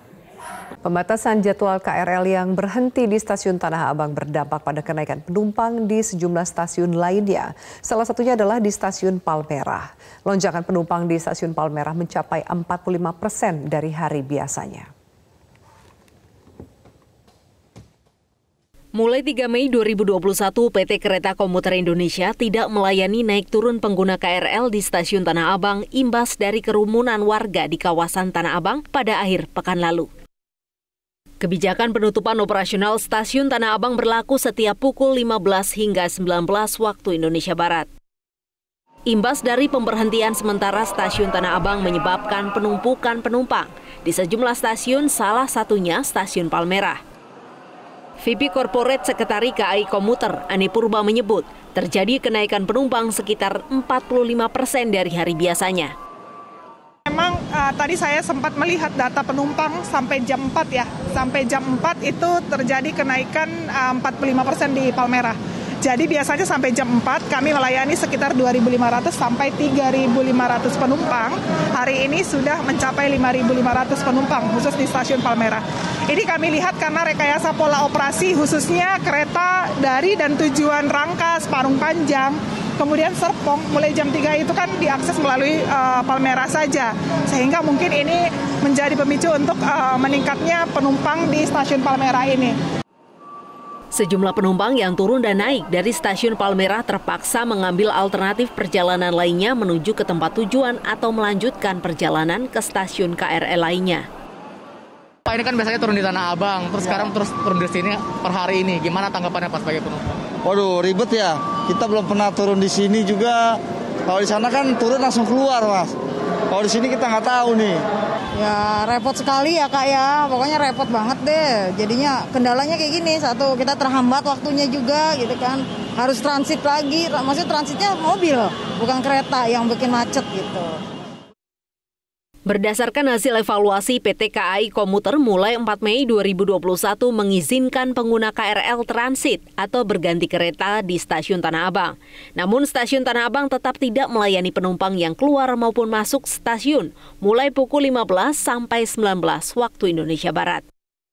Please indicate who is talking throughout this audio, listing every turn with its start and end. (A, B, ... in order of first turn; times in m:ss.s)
0:00.8-0:14.9 A
0:19.0-0:30.1 B
0:31.4-0:37.9 B
0:39.1-0:47.0 B
0:48.2-0:55.9 B
0:57.1-1:32.6 C
1:33.9-1:44.0 B
1:45.3-1:50.2 D
1:50.4-1:56.0 E
1:56.5-1:57.8 E
1:58.4-2:10.8 F
2:12.4-2:30.6 B